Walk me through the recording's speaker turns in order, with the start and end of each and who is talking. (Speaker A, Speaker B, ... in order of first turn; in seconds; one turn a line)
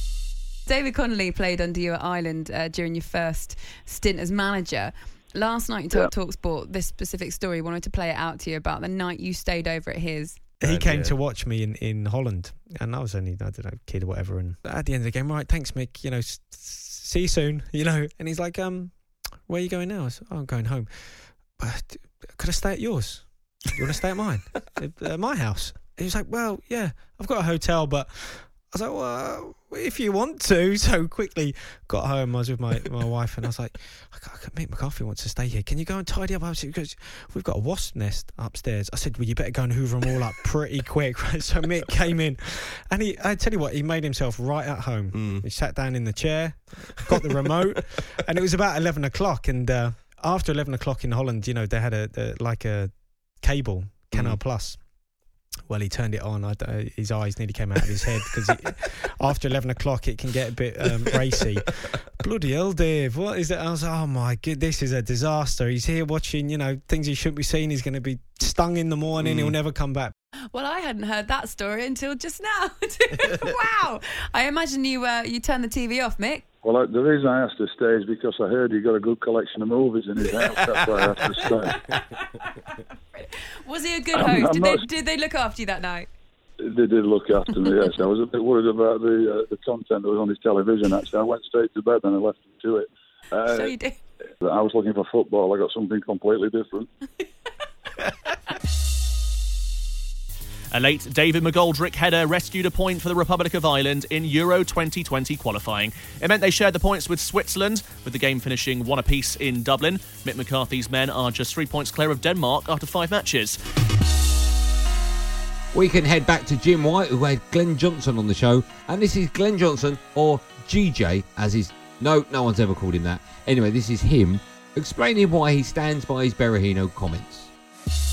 Speaker A: 0.7-10.5
Speaker B: 10.6-55.0
Speaker B: 55.6-70.1
Speaker A: 70.5-76.5
Speaker C: 76.6-81.8
Speaker A: 83.6-86.1
Speaker C: 84.1-84.8
Speaker C: 86.6-93.8
Speaker A: 93.5-94.0
Speaker C: 94.4-96.9
Speaker D: 100.7-113.6
Speaker E: 115.7-127.5